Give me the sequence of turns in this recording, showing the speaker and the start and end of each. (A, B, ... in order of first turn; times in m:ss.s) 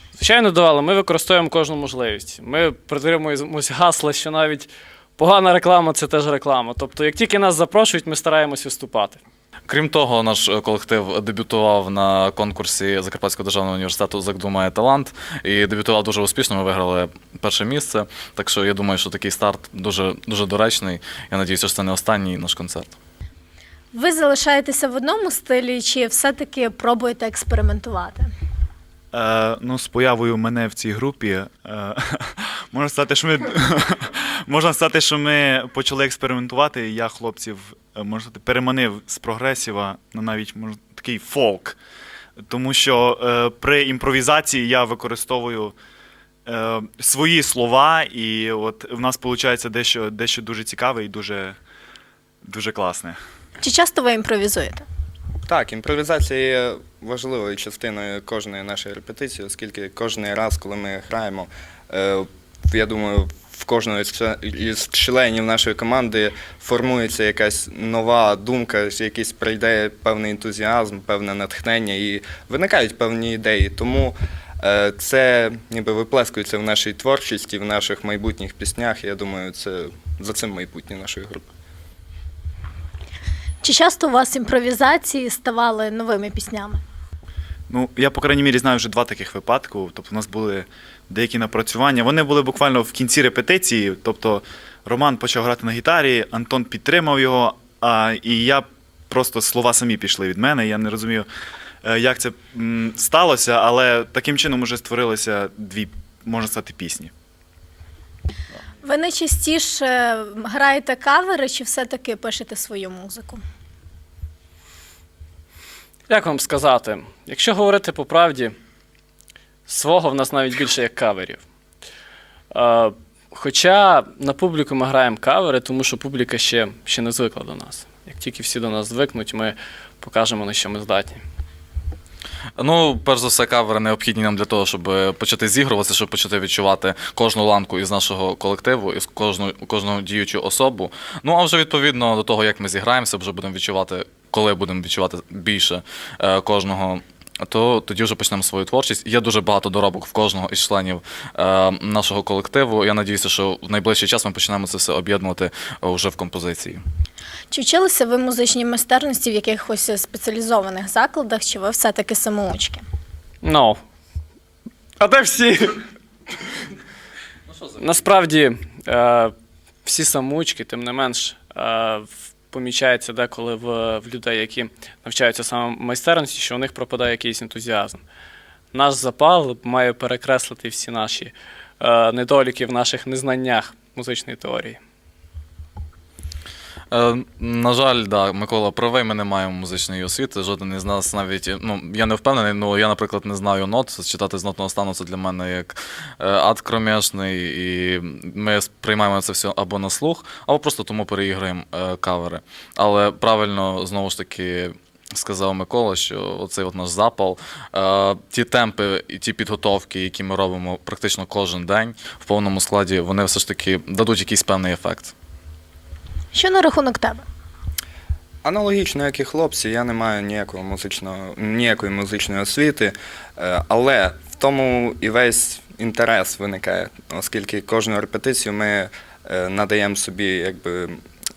0:00.2-0:09.2 A
0:09.7-0:23.0 B
0:23.9-0:28.3 C
0:29.1-0:41.8 D
0:42.5-0:45.8 D
0:46.5-0:51.6 D
0:52.5-0:53.2 D
0:53.6-0:54.8 C
0:55.5-1:21.5 E
1:23.6-1:26.8 C
1:27.7-1:41.3 D
1:41.8-1:47.1 D
1:48.8-1:53.4 C
1:56.1-1:58.6 A
1:59.7-2:01.4 A
2:02.5-2:11.2 A
2:12.6-2:36.8 B
2:37.5-2:42.8 C
2:43.4-2:43.8 A
2:45.0-2:45.8 A
2:47.8-2:49.3 A
2:49.8-2:58.0 A
2:58.7-3:04.8 A
3:06.9-3:35.1 B
3:36.3-3:37.2 C
3:38.4-3:51.0 E